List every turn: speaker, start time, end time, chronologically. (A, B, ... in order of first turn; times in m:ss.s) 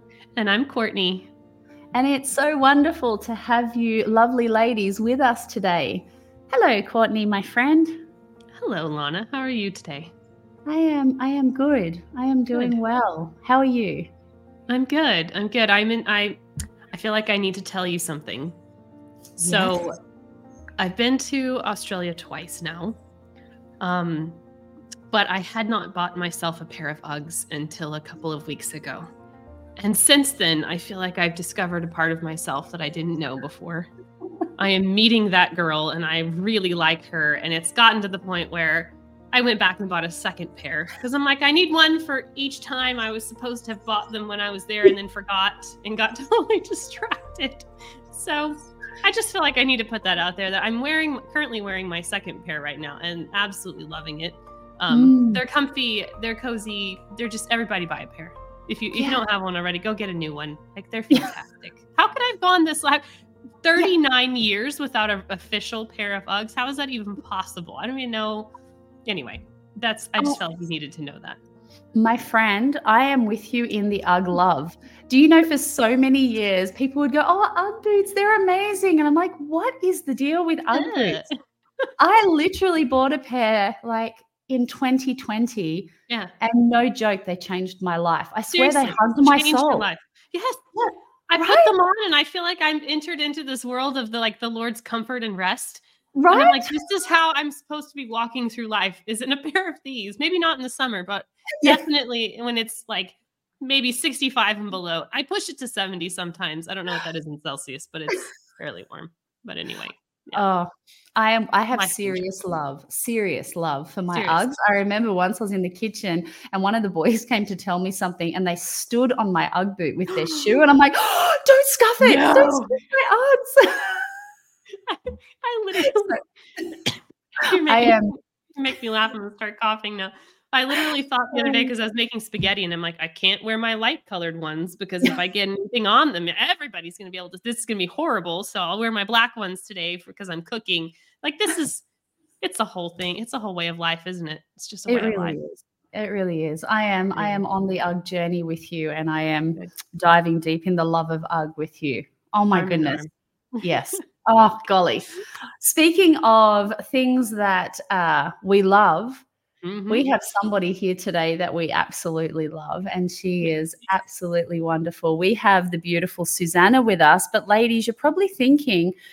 0:00.4-0:01.3 A
0:01.9-0:08.0 B
0:08.5-0:10.1 A
0:10.6-0:14.1 B
0:14.7-0:18.6 A
0:19.4-0:19.8 B
0:19.4-0:20.0 A
0:20.8-0:23.0 A
0:23.8-0:24.4 A
0:25.1-0:29.1 A
0:29.8-0:33.9 A
0:34.6-1:03.0 A
0:54.9-0:55.4 B
1:03.6-1:08.5 A
1:09.0-1:11.4 A
1:11.9-1:21.2 B
1:20.7-1:21.3 A
1:22.0-1:29.9 B
1:28.5-1:50.4 A
1:31.4-1:31.7 B
1:36.1-1:36.7 B
1:50.3-2:04.1 B
1:51.7-1:52.2 A
1:54.1-1:54.4 A
2:02.0-2:02.8 A
2:04.9-2:06.2 A
2:05.8-2:06.2 B
2:07.4-2:21.8 A
2:07.6-2:08.2 B
2:22.4-2:25.4 A
2:24.9-2:33.0 B
2:27.1-2:27.4 A
2:32.5-2:34.0 A
2:33.6-2:39.2 B
2:39.6-2:40.1 A
2:39.9-2:48.9 B